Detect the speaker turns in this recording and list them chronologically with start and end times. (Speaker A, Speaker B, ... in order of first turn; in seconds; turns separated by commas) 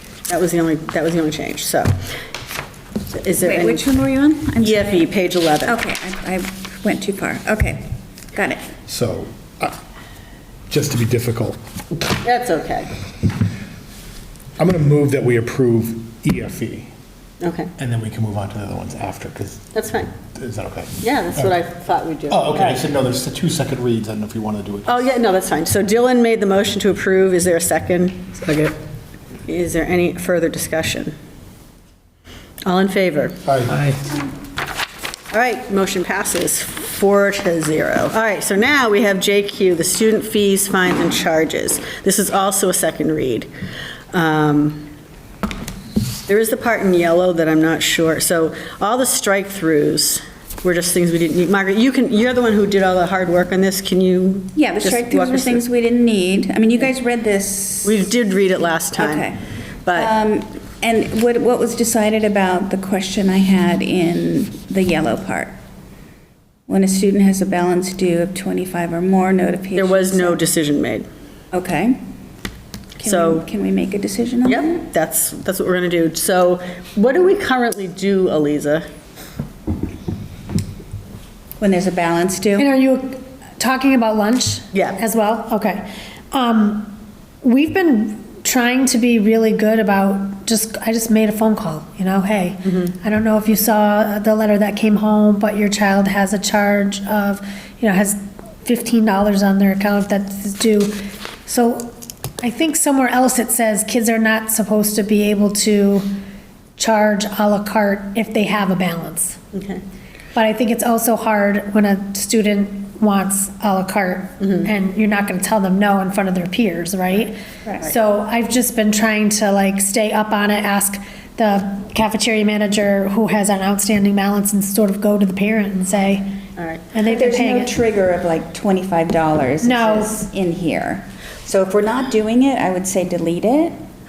Speaker A: 0.3-1.9, Speaker A: 3.1-3.9, Speaker B: 3.4-5.0, Speaker A: 4.6-5.8, Speaker B: 5.6-8.6, Speaker C: 8.9-9.8, Speaker C: 10.7-11.6, Speaker A: 12.2-12.9, Speaker C: 14.6-16.9, Speaker A: 17.4-17.7, Speaker C: 17.8-19.7, Speaker A: 19.7-20.1, Speaker C: 20.3-21.6, Speaker A: 21.0-22.8, Speaker C: 22.3-25.0, Speaker A: 24.9-28.5, Speaker A: 29.5-31.1, Speaker A: 32.6-33.4, Speaker C: 33.4-33.8, Speaker A: 35.3-43.5, Speaker A: 44.1-44.9, Speaker A: 46.3-55.6, Speaker B: 54.5-58.0, Speaker A: 57.8-59.3, Speaker B: 58.9-65.6, Speaker B: 66.7-70.4, Speaker A: 69.7-71.1, Speaker B: 71.5-72.0, Speaker B: 73.0-74.8, Speaker A: 73.0-73.5, Speaker A: 74.4-78.8, Speaker B: 81.6-82.7, Speaker D: 82.5-106.1, Speaker A: 84.7-85.0, Speaker D: 106.8-109.4, Speaker A: 109.5-109.8, Speaker D: 110.3-126.3, Speaker A: 114.4-114.7, Speaker A: 126.6-126.9, Speaker D: 126.9-127.8, Speaker B: 127.0-133.8, Speaker D: 129.6-130.2